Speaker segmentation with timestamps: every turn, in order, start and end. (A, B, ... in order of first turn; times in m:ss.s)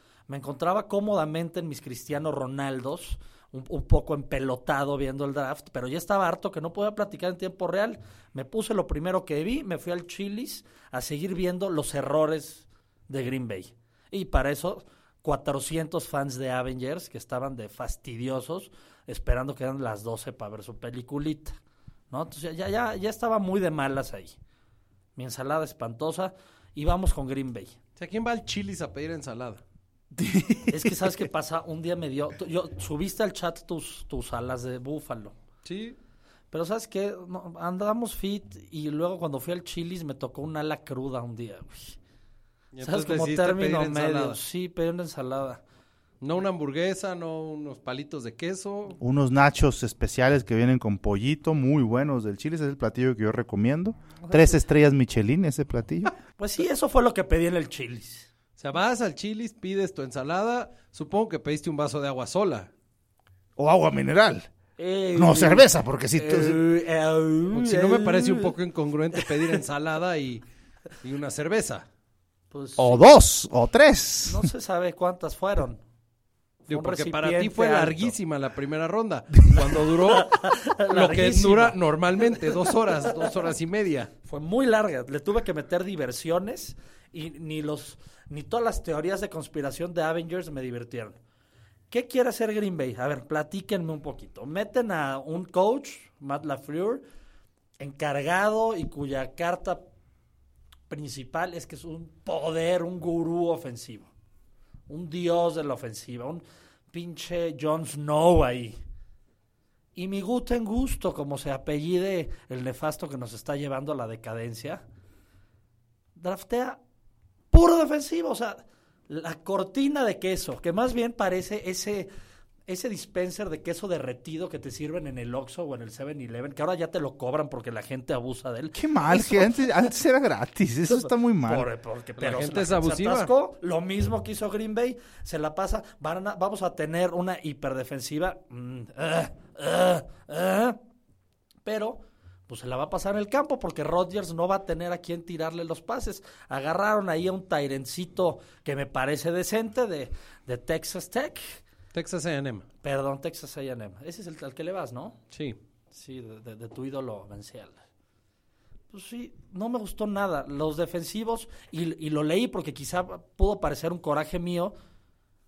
0:00.3-0:21.6 A
0:22.1-0:24.4 A
0:25.2-0:27.8 A
0:28.0-0:29.6 B
0:30.2-0:31.1 C
0:30.7-0:35.4 A
0:35.6-0:36.0 B
0:36.5-0:42.0 A
0:42.7-0:44.4 B
0:42.8-0:45.6 A
0:46.2-0:49.0 B
0:49.0-0:56.1 C
0:54.2-0:54.6 A
0:56.4-0:58.3 A
0:58.6-1:02.7 B
1:03.6-1:04.5 C
1:04.8-1:08.5 A
1:05.2-1:06.6 C
1:07.5-1:10.4 B
1:11.0-1:11.8 B
1:12.5-1:13.1 A
1:12.8-1:14.5 C
1:14.3-1:15.8 A
1:16.7-1:18.1 A
1:16.7-1:24.1 B
1:20.1-1:21.8 A
1:24.3-1:31.2 A
1:31.9-1:37.0 A
1:37.8-1:39.8 A
1:40.9-1:44.1 A
1:44.9-1:48.8 A
1:50.0-1:54.8 A
1:56.2-1:56.8 A
1:57.5-2:02.1 A
2:02.7-2:09.9 A
2:08.7-2:11.7 C
2:10.9-2:20.8 A
2:12.2-2:13.3 B
2:21.6-2:31.6 A
2:31.9-2:32.6 B
2:32.8-2:35.2 A
2:35.3-2:35.6 B
2:35.9-2:37.8 A
2:38.9-2:44.7 A